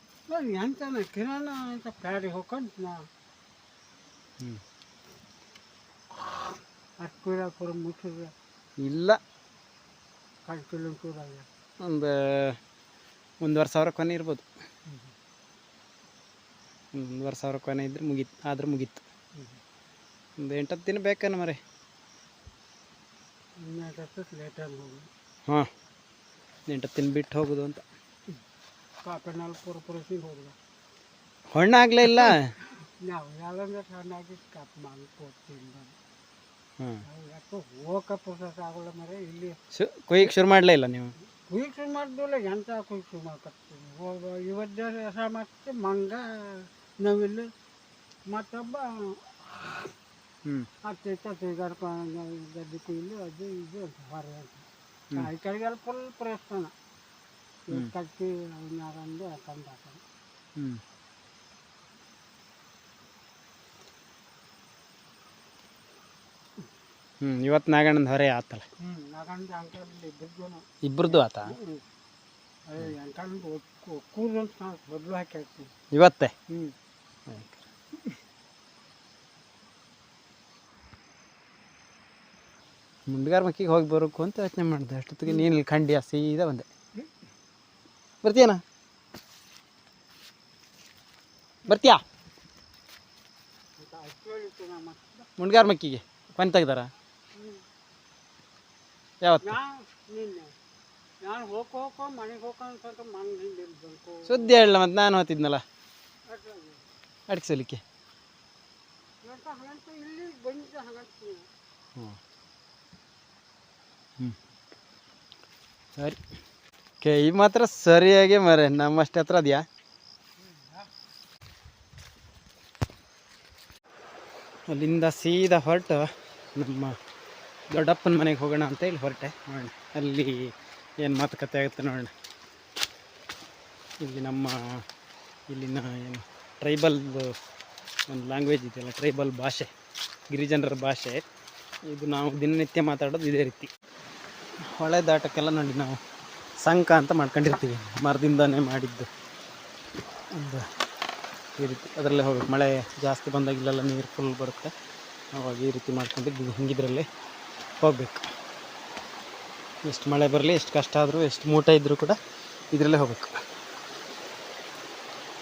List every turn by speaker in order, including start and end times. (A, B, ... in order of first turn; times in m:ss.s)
0:00.3-0:03.0 A
0:07.0-0:08.3 A
0:08.8-0:09.2 B
0:10.4-0:11.5 A
0:11.8-0:12.6 B
0:13.4-0:14.4 B
0:16.9-0:19.0 B
0:20.4-0:21.6 B
0:23.6-0:25.1 A
0:26.7-0:27.8 B
0:29.0-0:30.5 A
0:31.5-0:32.5 B
0:32.1-0:36.0 A
0:37.0-0:39.6 A
0:39.7-0:41.1 B
0:41.3-0:47.5 A
0:48.3-0:49.3 A
0:50.8-0:56.7 A
0:57.7-1:00.0 A
1:07.2-1:08.6 B
1:08.8-1:11.8 A
1:10.8-1:11.5 B
1:12.7-1:15.7 A
1:15.9-1:16.3 B
1:16.5-1:16.7 A
1:23.1-1:26.7 B
1:28.2-1:28.6 B
1:31.7-1:32.0 B
1:33.8-1:35.3 A
1:35.4-1:36.9 B
1:37.3-1:37.6 A
1:39.4-1:40.5 A
1:41.2-1:44.6 A
1:44.3-1:45.6 B
1:46.2-1:46.8 A
1:47.3-1:47.8 B
1:49.2-1:51.5 A
1:57.0-1:59.6 B
2:00.4-2:00.8 A
2:04.7-2:07.0 B
2:07.7-2:12.1 B
2:14.0-2:14.8 B
2:15.5-2:17.4 B
2:18.1-2:19.7 B
2:20.3-2:21.2 B
2:21.9-2:23.7 B
2:24.7-2:26.0 B
2:26.6-2:29.1 B
2:30.3-2:30.7 B
2:31.6-2:34.7 B
2:35.3-2:37.1 B
2:37.8-2:38.3 B
2:39.8-2:42.2 B
2:42.7-2:43.4 B